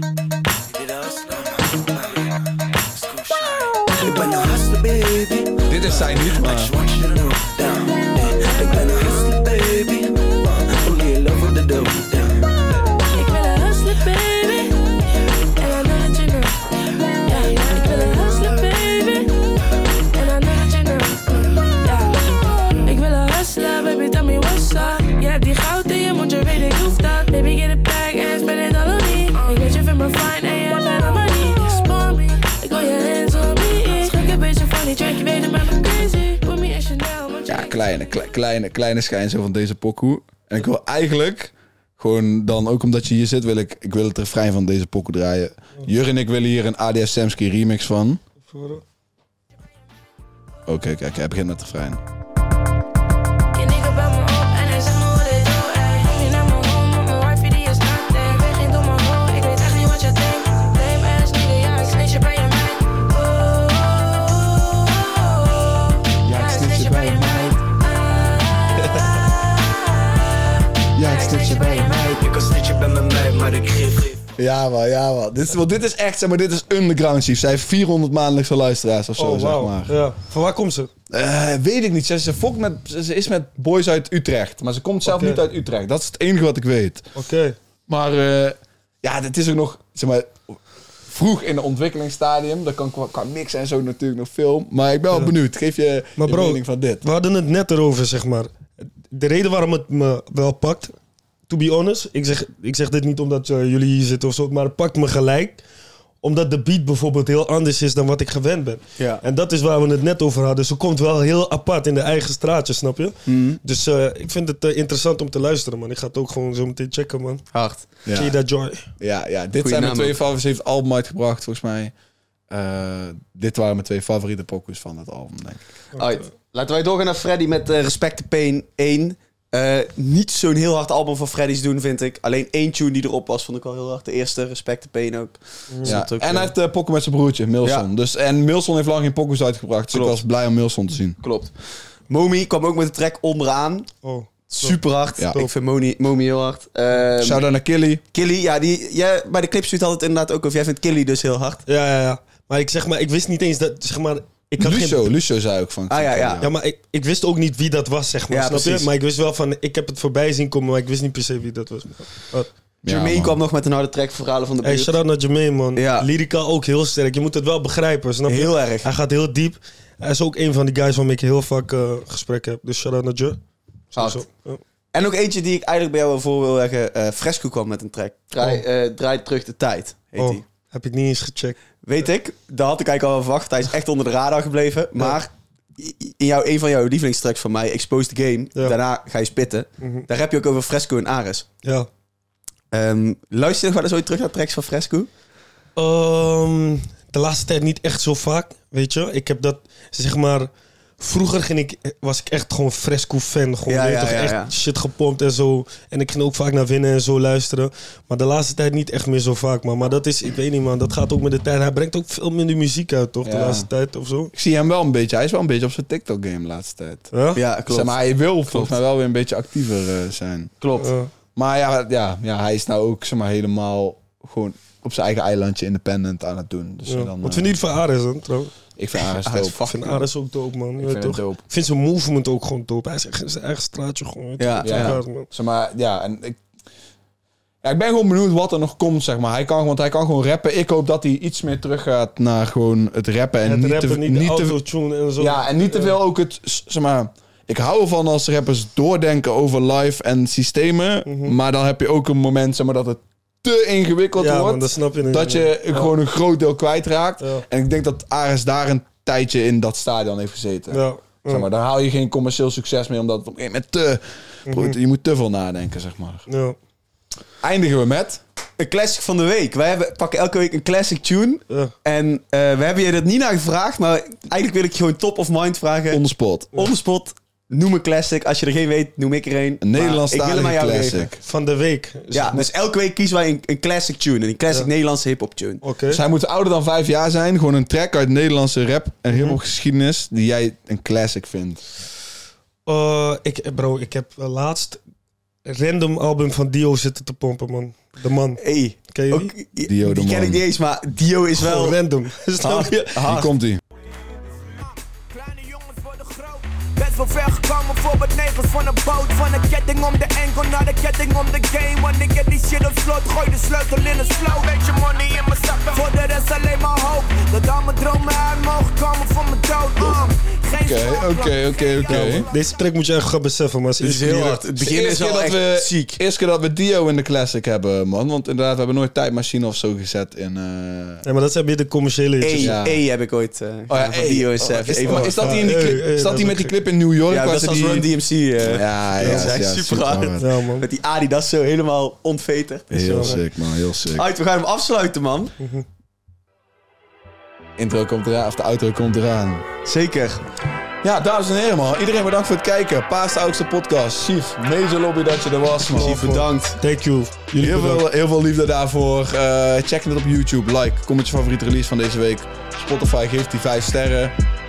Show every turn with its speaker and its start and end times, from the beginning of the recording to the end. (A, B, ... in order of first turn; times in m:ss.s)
0:00.6-0:12.6 A
0:05.7-0:06.7 B
0:13.1-0:14.8 C
0:15.6-0:16.6 C
0:17.2-0:19.4 C
0:20.1-0:22.2 C
0:22.8-0:37.8 C
0:37.5-0:48.2 B
0:48.5-0:48.8 D
0:50.7-0:52.0 B
0:53.5-1:12.2 C
1:06.2-1:07.6 B
1:11.0-1:12.2 B
1:12.2-1:14.2 A
1:14.4-1:20.0 B
1:19.2-1:20.9 D
1:21.1-1:27.1 B
1:25.0-1:25.4 D
1:27.1-1:27.6 D
1:27.9-1:37.0 B
1:36.2-1:40.9 D
1:41.5-1:45.6 D
1:46.2-1:57.4 D
1:49.0-1:49.2 E
1:53.3-1:53.6 E
1:57.5-1:57.8 E
1:58.0-1:58.3 B
1:58.1-1:58.9 D
1:59.0-2:01.9 B
1:59.6-2:00.1 E
2:02.5-2:05.6 B
2:06.0-2:16.5 E
2:15.7-2:16.0 D
2:15.8-2:21.2 B
2:19.9-2:20.2 E
2:21.2-2:21.5 E
2:22.1-2:23.9 E
2:24.0-2:24.8 D
2:24.5-2:27.4 E
2:25.2-2:25.4 B
2:27.2-2:28.0 B
2:28.1-2:31.6 E
2:31.6-2:35.0 D
2:34.6-2:36.5 B
2:35.9-2:36.4 E
2:36.4-2:42.5 D
2:38.3-2:38.9 E
2:42.8-2:43.4 B
2:42.8-2:44.9 E
2:44.6-2:53.4 D
2:45.7-2:46.1 E
2:48.3-2:48.9 E
2:53.9-2:54.6 D
2:54.0-2:54.2 E
2:54.9-3:00.4 E
3:00.2-3:01.6 D
3:01.8-3:11.4 E
3:09.8-3:10.0 D
3:12.7-3:15.1 E
3:15.8-3:34.3 D
3:23.7-3:24.5 E
3:33.2-3:33.7 B
3:34.3-3:37.1 B
3:37.1-3:37.4 D
3:37.3-3:38.0 E
3:37.7-3:40.5 B
3:40.6-3:40.9 E
3:40.8-3:41.1 D
3:41.4-3:47.5 B
3:46.8-3:48.5 D
3:48.8-3:49.6 B
3:49.2-3:50.0 E
3:49.6-3:55.3 D
3:50.8-3:51.3 E
3:51.0-3:51.4 B
3:54.4-3:55.0 E
3:54.6-3:56.4 B
3:57.6-4:04.6 B
4:03.4-4:05.9 D
4:05.2-4:26.2 B
4:11.0-4:11.3 D
4:14.2-4:15.9 D
4:20.7-4:21.4 D
4:24.5-4:24.8 D
4:26.3-4:26.6 D
4:27.4-4:28.2 B
4:28.6-4:41.1 E
4:35.9-4:36.5 B
4:39.6-4:41.2 B
4:41.2-4:42.5 D
4:42.1-4:45.6 E
4:45.6-4:46.0 D
4:45.9-4:51.6 B
4:52.6-4:54.8 D
4:55.4-4:59.3 D
4:58.4-5:01.8 E
4:59.6-5:00.4 B
5:01.4-5:03.0 D
5:02.4-5:03.3 E
5:03.0-5:03.6 B
5:04.4-5:22.5 A
5:20.6-5:22.3 B
5:21.9-5:24.4 D
5:23.8-5:26.0 E
5:24.6-5:31.0 B
5:31.0-5:32.6 D
5:32.2-5:35.2 E
5:32.4-5:32.8 B
5:33.7-5:40.2 B
5:34.8-5:36.5 D
5:37.1-5:43.2 E
5:39.0-5:39.3 D
5:40.2-5:40.6 D
5:42.7-5:44.0 B
5:42.8-5:43.2 D
5:43.9-5:45.3 E
5:45.4-5:45.6 D
5:47.6-5:49.5 B
5:49.6-5:50.2 E
5:50.8-5:56.0 B
5:55.7-5:57.8 D
5:55.7-5:56.6 E
5:57.4-6:04.1 B